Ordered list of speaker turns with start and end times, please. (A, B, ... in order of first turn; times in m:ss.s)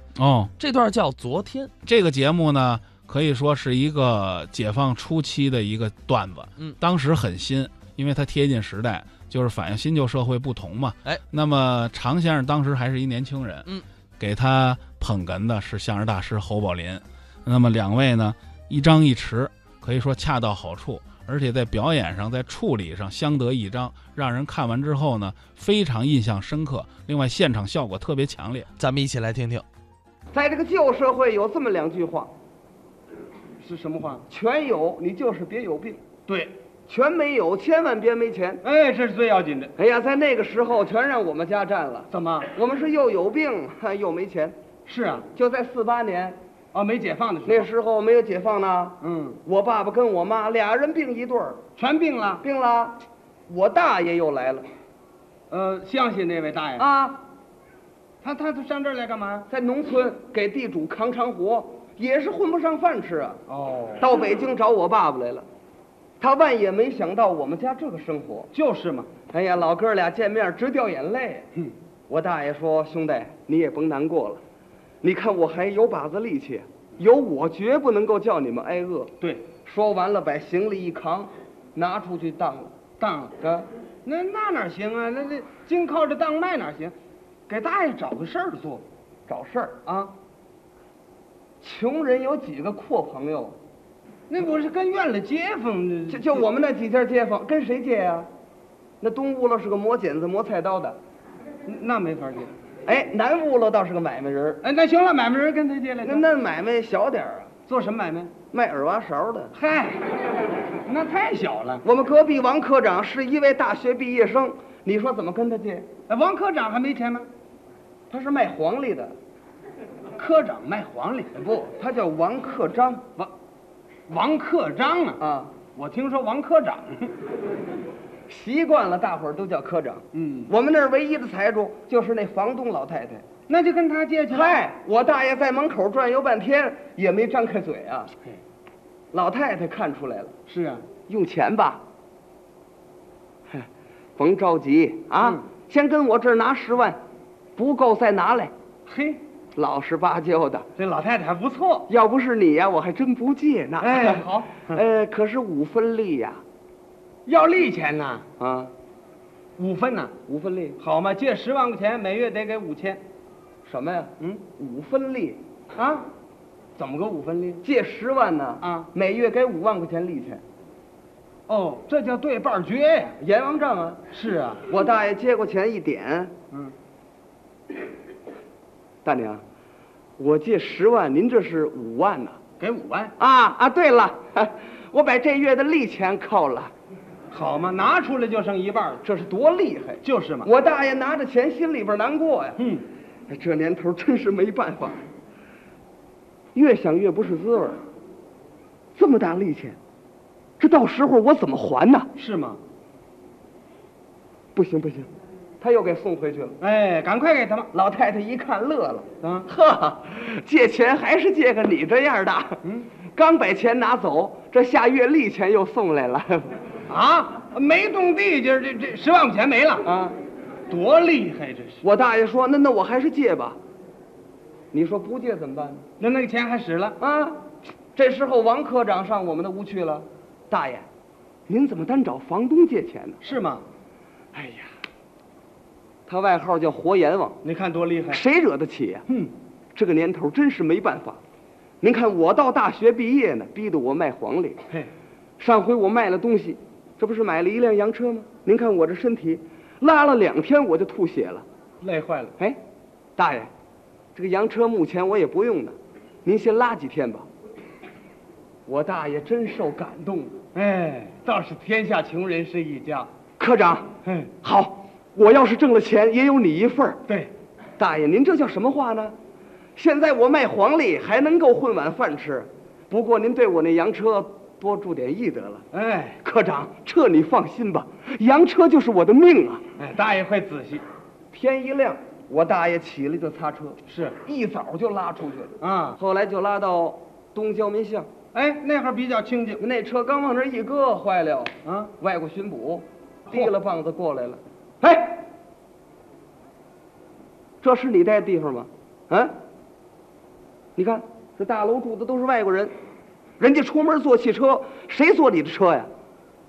0:00.2-0:00.5 A
0:00.6-0:01.7 B
0:01.8-0:28.7 A
0:28.8-0:29.6 B
0:30.3-0:32.3 C
0:33.6-0:34.3 D
0:34.3-0:36.0 C
0:36.3-0:36.5 D
0:36.9-0:38.6 C
0:38.6-0:39.7 D
0:39.8-0:44.6 C
0:42.1-0:42.5 D
0:44.9-0:45.3 D
0:45.3-0:46.4 C
0:46.7-0:47.7 D
0:47.5-0:51.6 C
0:49.0-0:49.4 D
0:51.8-0:52.4 D
0:52.4-0:54.7 C
0:55.5-0:56.8 D
0:56.8-0:57.2 C
0:58.2-0:59.5 D
0:59.5-1:03.4 C
1:03.5-1:04.0 D
1:04.0-1:05.5 C
1:06.2-1:08.5 C
1:08.5-1:09.1 D
1:09.3-1:11.5 C
1:12.1-1:14.4 C
1:15.0-1:22.8 C
1:23.0-1:23.4 D
1:23.4-1:23.7 C
1:24.0-1:26.9 D
1:27.5-1:28.8 D
1:29.3-1:29.8 C
1:29.9-1:30.1 D
1:31.6-1:33.6 C
1:34.3-1:36.4 D
1:36.1-1:38.3 C
1:39.0-1:41.0 C
1:41.7-1:42.5 D
1:42.9-1:44.6 C
1:44.6-1:46.3 D
1:46.0-1:47.5 C
1:47.7-1:48.3 D
1:48.5-1:49.5 C
1:49.6-1:50.2 D
1:50.9-1:51.8 D
1:51.8-1:55.9 C
1:56.1-1:57.3 D
1:58.1-1:59.2 C
2:00.2-2:01.4 D
2:01.4-2:03.0 C
2:04.1-2:05.2 D
2:05.2-2:05.6 C
2:05.8-2:07.1 D
2:08.3-2:13.2 C
2:10.1-2:10.5 D
2:13.5-2:14.6 D
2:14.3-2:18.1 C
2:19.1-2:20.4 C
2:20.5-2:20.8 D
2:21.1-2:21.8 C
2:23.5-2:27.0 C
2:27.6-2:28.5 C
2:28.9-2:29.2 D
2:29.6-2:30.7 C
2:30.8-2:31.9 D
2:31.9-2:36.4 C
2:33.8-2:34.8 D
2:37.3-2:38.2 D
2:38.4-2:38.7 C
2:39.6-2:40.2 D
2:40.3-2:40.8 C
2:40.8-2:43.0 D
2:43.6-2:45.4 C
2:45.8-2:46.1 D
2:46.8-2:47.6 D
2:47.6-2:50.4 C
2:48.6-2:48.9 D
2:51.5-2:53.2 D
2:53.2-2:54.0 C
2:54.1-2:54.7 D
2:54.7-2:56.3 C
2:59.0-2:59.4 C
3:00.2-3:02.4 C
3:02.6-3:03.1 D
3:03.2-3:06.7 C
3:07.3-3:09.0 D
3:09.0-3:12.6 C
3:10.0-3:10.5 D
3:12.6-3:12.8 D
3:13.3-3:15.0 C
3:16.6-3:17.8 C
3:19.0-3:19.8 C
3:20.6-3:22.1 C
3:22.2-3:22.6 D
3:24.6-3:25.1 C
3:25.6-3:26.6 C
3:26.6-3:27.7 D
3:27.7-3:32.6 C
3:29.2-3:29.5 D
3:33.1-3:36.5 C
3:36.9-3:39.9 D
3:39.8-3:40.2 C
3:40.7-3:41.8 D
3:41.8-3:43.6 C
3:44.7-3:45.8 C
3:46.0-3:47.0 D
3:47.0-3:47.4 C
3:48.0-3:50.9 C
3:51.5-3:53.2 C
3:53.2-3:53.6 D
3:54.3-3:54.7 C
3:56.1-3:57.4 C
3:57.4-3:58.2 D
3:58.1-3:59.1 C
3:59.8-4:01.2 C
4:01.8-4:04.6 C
4:05.4-4:11.4 C
4:11.8-4:12.4 D
4:13.2-4:13.5 C
4:14.2-4:17.3 C
4:18.7-4:20.4 C
4:20.5-4:23.1 D
4:23.4-4:27.0 C
4:24.0-4:24.3 D
4:27.8-4:29.2 C
4:29.8-4:35.6 C
4:35.7-4:36.2 D
4:36.2-4:39.6 C
4:39.8-4:40.8 D
4:41.3-4:48.1 C
4:43.9-4:44.2 D
4:45.6-4:46.0 D
4:48.3-4:49.6 D
4:49.6-4:55.2 C
4:51.6-4:51.9 D
4:57.6-4:59.3 C
5:00.8-5:02.7 C
5:03.4-5:05.9 C